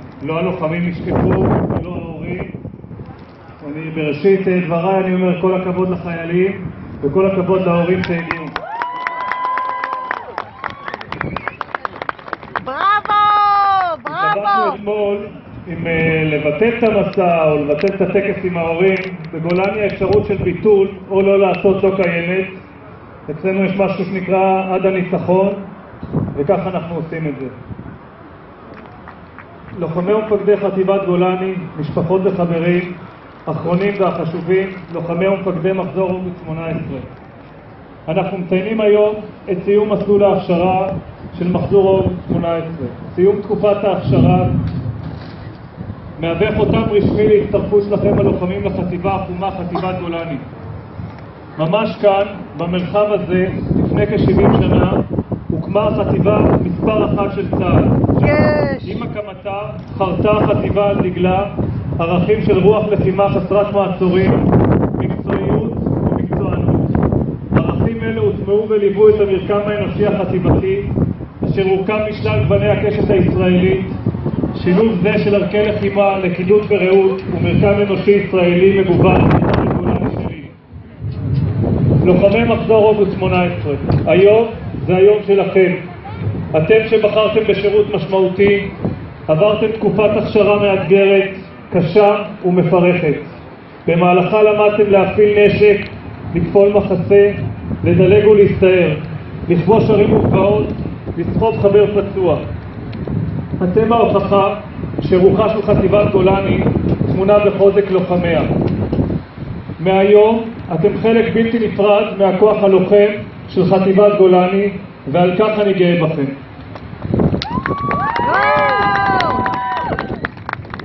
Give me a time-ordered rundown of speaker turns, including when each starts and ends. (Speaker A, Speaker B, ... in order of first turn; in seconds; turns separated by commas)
Speaker A: 0.2-2.6, Speaker A: 3.6-8.6, Speaker B: 12.6-14.8, Speaker A: 14.1-22.6, Speaker A: 23.3-25.7, Speaker A: 26.3-27.5, Speaker A: 29.8-37.1, Speaker A: 38.1-44.5, Speaker A: 46.2-50.4, Speaker A: 51.6-58.1, Speaker B: 58.2-58.9, Speaker A: 58.8-66.9, Speaker A: 67.5-70.9, Speaker A: 71.4-73.9, Speaker A: 74.5-80.5, Speaker A: 82.0-85.8, Speaker A: 86.5-88.7, Speaker A: 89.3-93.3, Speaker A: 93.8-102.5, Speaker A: 103.6-108.5, Speaker A: 109.8-116.4, Speaker B: 118.3-119.4